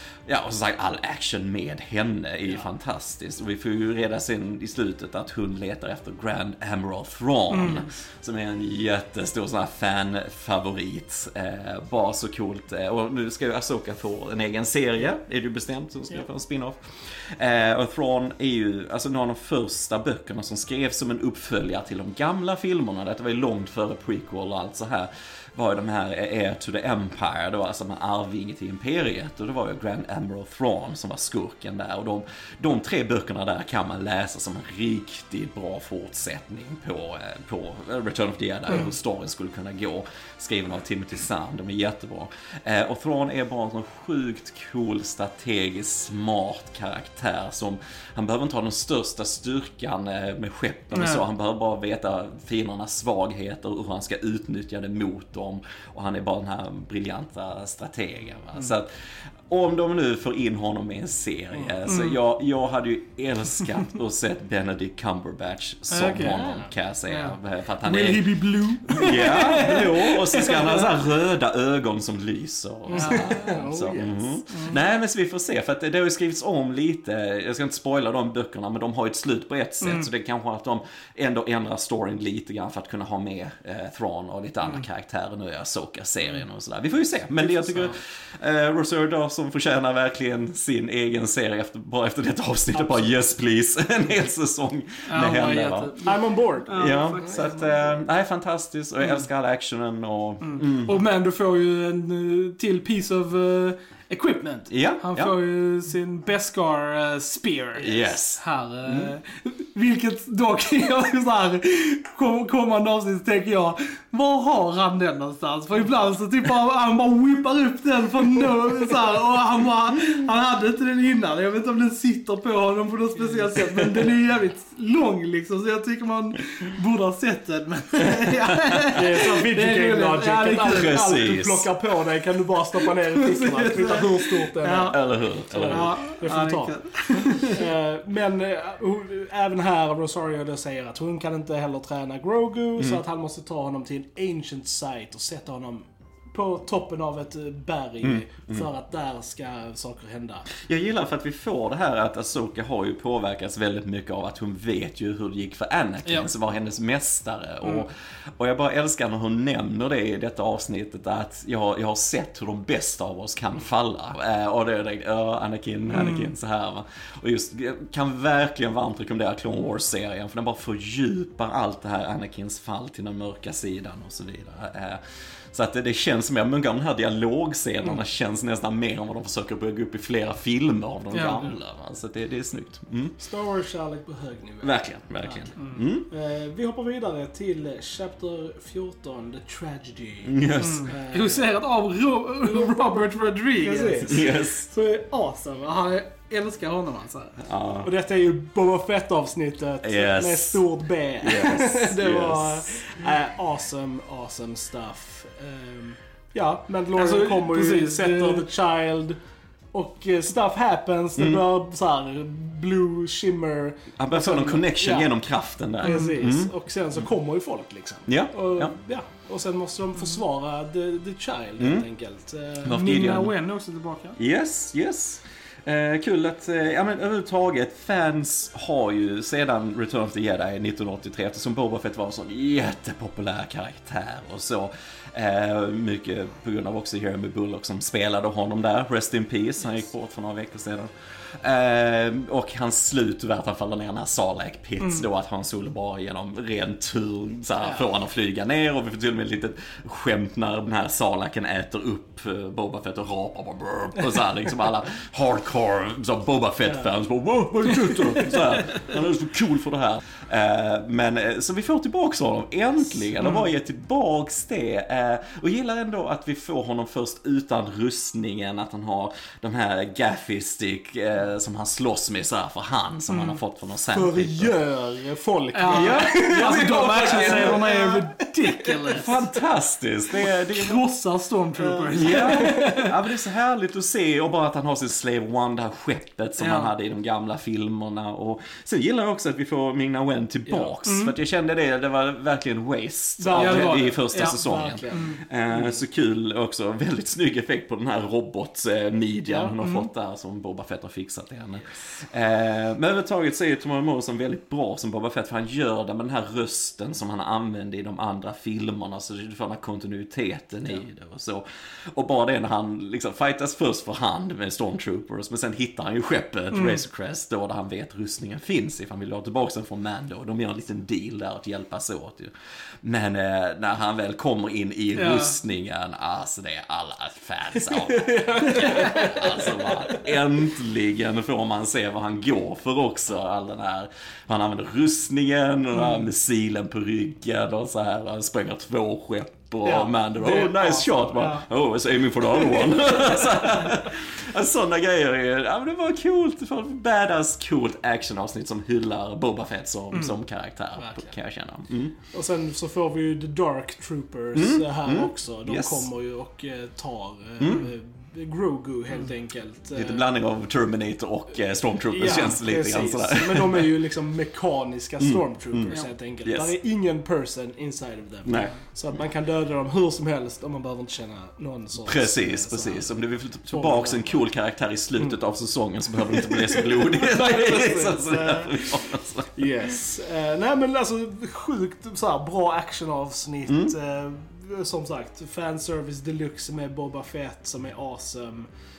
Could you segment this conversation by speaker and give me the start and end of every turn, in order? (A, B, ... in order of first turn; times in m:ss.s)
0:00.3-0:58.9 A
0:07.5-0:07.9 B
0:50.9-0:51.2 B
0:59.5-1:36.0 A
1:01.8-1:02.2 B
1:05.9-1:10.9 B
1:09.0-1:09.4 C
1:12.9-1:14.4 C
1:12.9-1:13.5 B
1:14.5-1:14.8 B
1:19.8-1:20.1 B
1:27.4-1:27.9 C
1:35.1-1:37.5 B
1:36.0-1:37.4 C
1:36.7-1:41.0 A
1:40.4-2:11.2 B
1:44.7-1:45.3 A
1:47.8-1:49.1 A
2:03.3-2:04.0 C
2:08.0-2:08.6 A
2:08.9-2:30.5 C
2:10.6-2:11.7 A
2:12.8-2:17.6 B
2:14.9-2:16.0 A
2:28.0-2:28.7 A
2:30.5-2:55.0 A
2:45.9-2:46.3 B
2:55.5-3:03.2 A
3:01.1-3:01.5 B
3:03.2-3:11.5 C
3:04.6-3:06.1 A
3:10.2-3:10.9 A
3:10.6-3:14.3 B
3:13.6-3:15.9 C
3:14.1-3:14.6 A
3:15.6-3:17.4 B
3:17.4-3:17.9 A
3:17.8-3:29.2 C
3:19.8-3:20.7 A
3:21.2-3:22.9 A
3:27.0-3:28.4 B
3:29.7-3:35.1 C
3:31.2-3:31.4 A
3:34.0-3:36.5 A
3:35.8-3:42.8 C
3:35.8-3:36.3 B
3:38.1-3:38.7 A
3:41.6-3:41.9 A
3:42.6-3:43.3 A
3:42.7-3:44.2 B
3:44.2-4:34.5 A
4:04.8-4:05.0 B
4:17.5-4:18.4 C
4:23.2-4:23.5 B
4:33.1-4:33.4 B
4:33.8-4:39.0 C
4:35.5-4:39.3 B
4:35.7-4:37.9 A
4:38.9-4:40.8 A
4:40.5-4:43.0 B
4:41.6-4:42.8 C
4:41.9-5:52.0 A
4:46.4-4:46.7 B
4:50.5-4:50.7 C
4:50.8-4:51.1 B
4:53.2-4:55.8 C
4:53.3-4:55.2 B
4:59.3-4:59.5 C
4:59.6-4:59.9 B
5:16.5-5:16.8 B
5:25.0-5:25.4 B
5:27.8-5:30.0 C
5:28.4-5:29.0 B
5:39.7-5:41.4 C
5:50.8-5:51.1 C
5:52.1-6:00.0 C
5:54.3-5:55.9 A
5:57.4-5:57.7 A
5:59.8-6:03.7 A
6:01.9-6:12.9 C
6:05.0-6:06.5 A
6:08.2-6:08.6 A
6:11.8-6:19.7 A
6:13.5-6:14.2 C
6:16.1-6:28.5 C
6:23.5-6:23.8 A